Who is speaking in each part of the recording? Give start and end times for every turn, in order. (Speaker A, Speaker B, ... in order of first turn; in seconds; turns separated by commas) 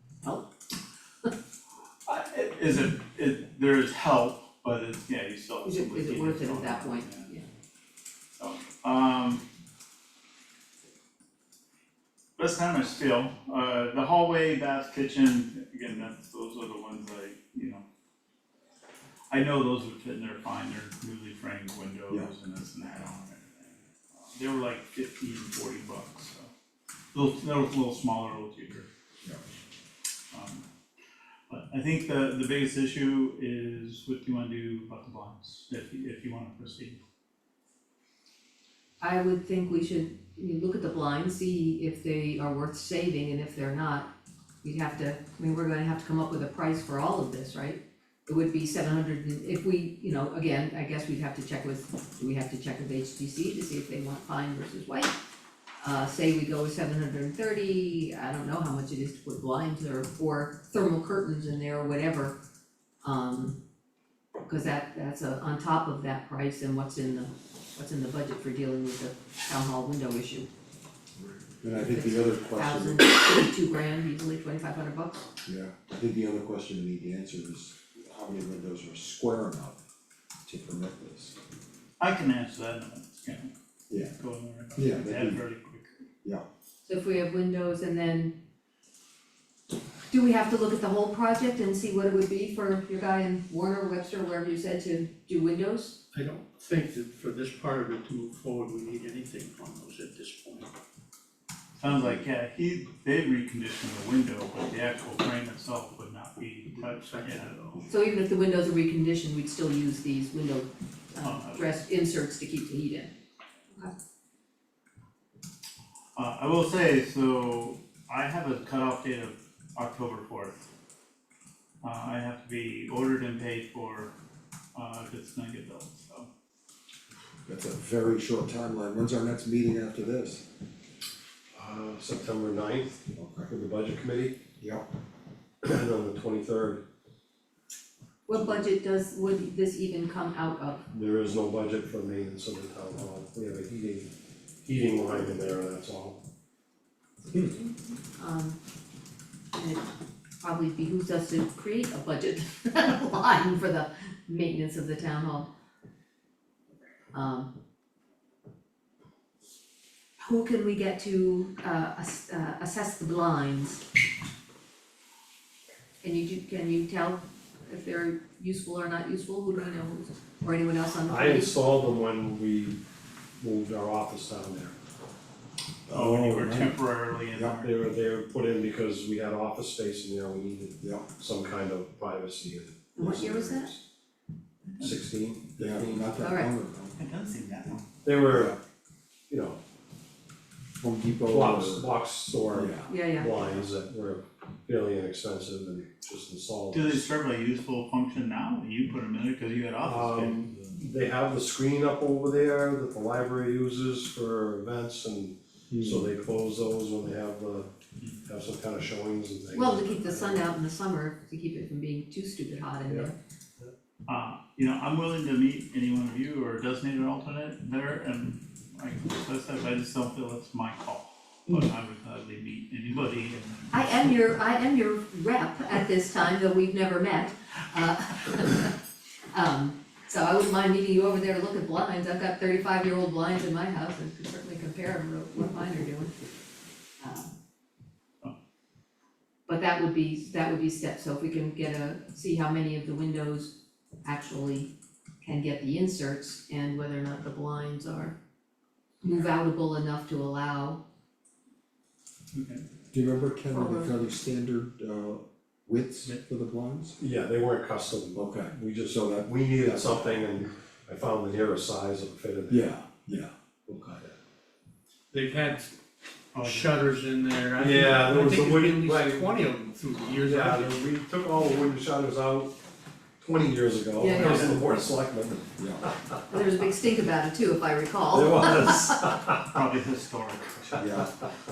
Speaker A: 0.2-0.5, Speaker B: 2.0-7.3, Speaker A: 5.6-7.5, Speaker B: 8.4-9.4, Speaker B: 12.4-17.8, Speaker B: 19.3-26.5, Speaker B: 27.1-28.9, Speaker B: 30.3-30.6, Speaker B: 31.5-37.0, Speaker A: 39.0-44.1, Speaker A: 44.6-55.1, Speaker A: 55.8-62.4, Speaker A: 63.0-63.6, Speaker A: 64.5-70.5, Speaker C: 71.2-73.0, Speaker A: 71.8-75.3, Speaker C: 75.5-79.8, Speaker C: 80.5-81.3, Speaker B: 82.0-86.0, Speaker C: 83.9-84.2, Speaker C: 84.8-85.4, Speaker A: 86.8-88.3, Speaker A: 90.1-96.0, Speaker D: 96.1-100.7, Speaker B: 101.8-107.5, Speaker D: 106.7-107.8, Speaker A: 107.9-113.1, Speaker B: 111.2-111.7, Speaker B: 116.2-120.6, Speaker B: 121.8-124.1, Speaker B: 124.7-126.3, Speaker C: 127.5-130.4, Speaker E: 131.6-134.4, Speaker C: 133.2-133.5, Speaker C: 134.6-134.8, Speaker E: 135.6-136.8, Speaker A: 138.3-140.8, Speaker E: 140.9-144.1, Speaker E: 144.6-146.2, Speaker A: 147.3-148.6, Speaker A: 149.6-149.9, Speaker A: 150.4-155.5, Speaker A: 157.1-157.5, Speaker A: 160.2-163.8, Speaker A: 166.0-171.6, Speaker E: 171.1-172.8, Speaker E: 173.4-174.8, Speaker C: 175.9-176.8, Speaker B: 175.9-177.8, Speaker C: 177.3-177.6, Speaker E: 177.6-183.8, Speaker C: 180.8-181.1, Speaker A: 183.0-183.7, Speaker E: 184.8-186.3, Speaker C: 185.6-186.9, Speaker A: 186.2-186.5, Speaker B: 187.0-187.8, Speaker E: 188.0-188.5, Speaker C: 188.3-188.6, Speaker E: 189.3-189.6, Speaker C: 190.8-191.9, Speaker E: 191.2-197.1, Speaker C: 192.5-192.9, Speaker A: 192.9-193.3, Speaker B: 196.7-200.8, Speaker E: 199.8-207.7, Speaker E: 208.2-210.5, Speaker A: 209.5-213.1, Speaker E: 212.9-213.7, Speaker B: 214.1-224.2, Speaker A: 223.7-228.8, Speaker A: 229.3-236.1, Speaker A: 237.0-237.3, Speaker A: 239.5-248.2, Speaker A: 249.0-250.8, Speaker B: 252.3-252.6, Speaker C: 252.9-256.9, Speaker A: 253.5-253.9, Speaker E: 257.0-262.7, Speaker C: 258.1-260.2, Speaker C: 262.5-263.3, Speaker E: 263.7-264.1, Speaker D: 265.1-265.7, Speaker B: 266.3-267.0, Speaker D: 266.4-270.9, Speaker E: 267.6-269.3, Speaker E: 270.2-272.5, Speaker E: 273.2-276.1, Speaker A: 274.0-274.6, Speaker C: 275.6-275.9, Speaker A: 276.3-279.1, Speaker E: 278.1-279.6, Speaker B: 279.5-281.1, Speaker C: 280.8-281.1